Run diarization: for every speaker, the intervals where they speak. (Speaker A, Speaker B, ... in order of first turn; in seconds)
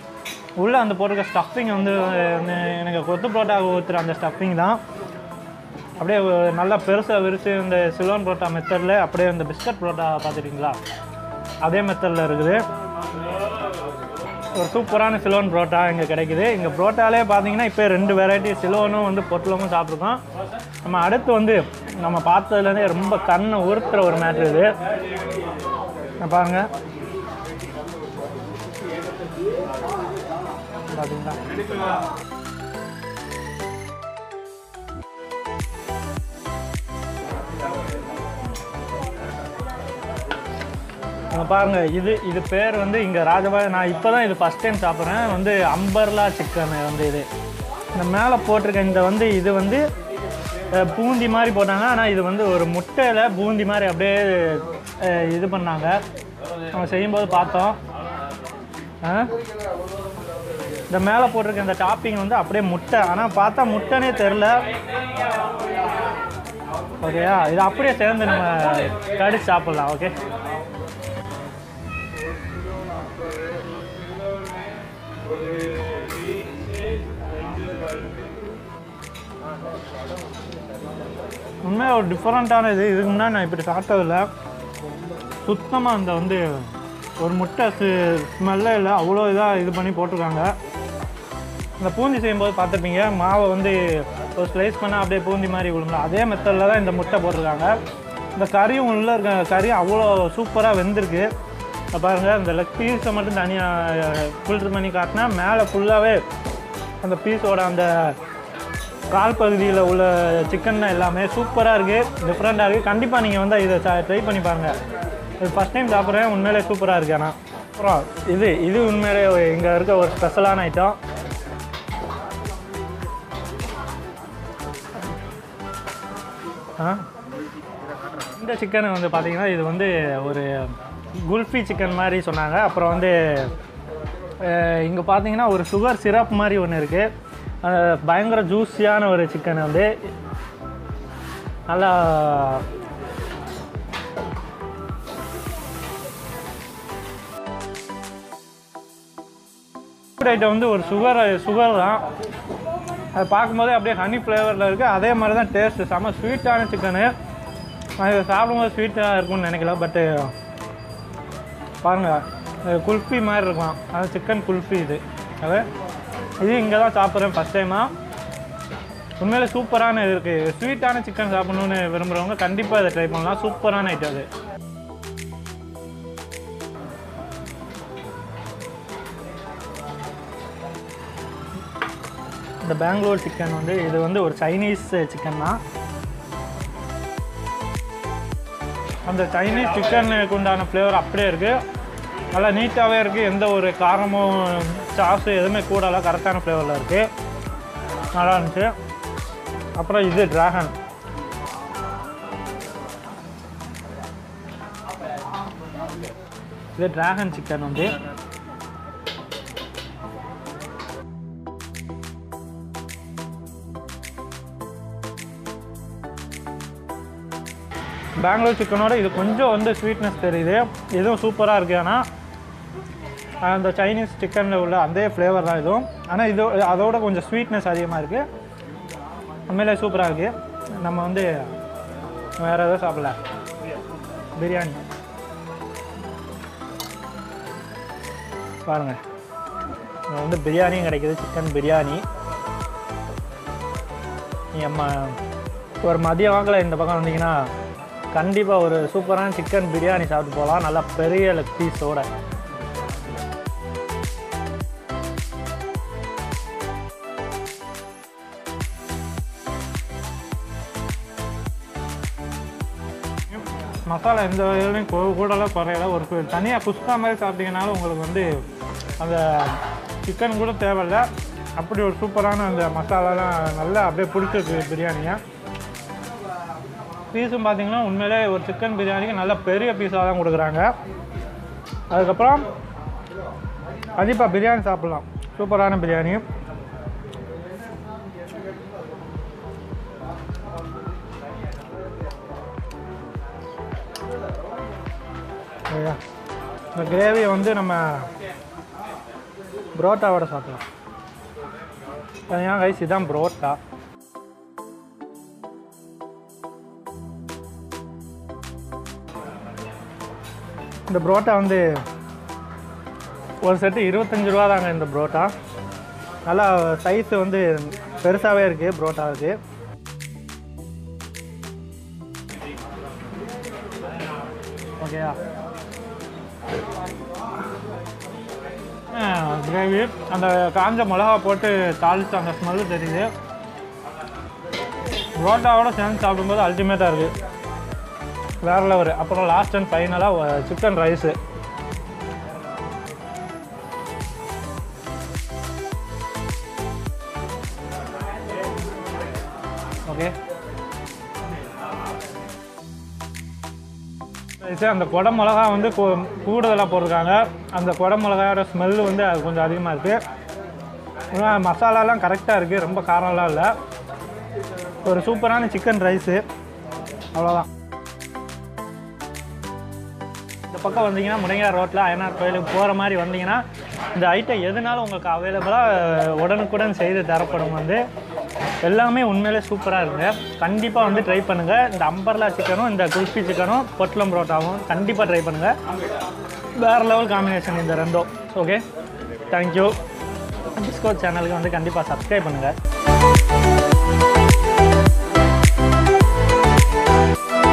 Speaker A: 0.6-4.8, 6.0-10.8, 11.6-12.6, 14.6-20.2, 20.8-24.8, 26.2-26.7, 30.9-31.4, 41.3-47.3, 48.0-49.8, 50.7-56.0, 56.7-57.8, 59.0-59.3, 60.9-64.7, 67.0-70.2, 81.6-84.3, 85.4-90.5, 91.8-97.8, 98.4-101.3, 101.9-106.2, 107.0-108.2, 109.1-114.7, 115.4-121.0, 126.8-127.1, 128.3-133.5, 134.4-137.1, 137.6-139.9, 141.7-142.7, 150.2-152.1, 153.1-157.1, 158.0-160.3, 161.8-165.7, 166.4-167.9, 169.2-174.3, 182.6-185.6, 189.1-191.6, 192.3-197.1, 198.1-198.7, 199.8-200.7, 206.8-208.0, 218.2-222.1, 223.4-228.3, 229.5-231.5, 232.4-233.2, 234.4-234.8, 238.7-239.0, 240.1-242.1, 244.5-245.2, 245.8-247.5, 248.1-252.1, 263.3-268.3, 269.0-275.2, 277.1-280.7, 281.9-282.5, 284.0-286.2, 295.7-296.0, 296.7-298.1, 299.8-300.6, 302.3-303.6, 310.9-311.8, 313.4-315.3, 316.3-319.4, 324.8-325.2, 328.9-333.1, 335.2-337.1, 338.4-341.2, 349.9-350.1, 354.4-360.0, 361.1-363.5, 364.8-366.2, 367.1-367.5, 370.5-377.8, 378.6-385.5, 386.6-388.6, 389.3-389.8, 390.6-392.6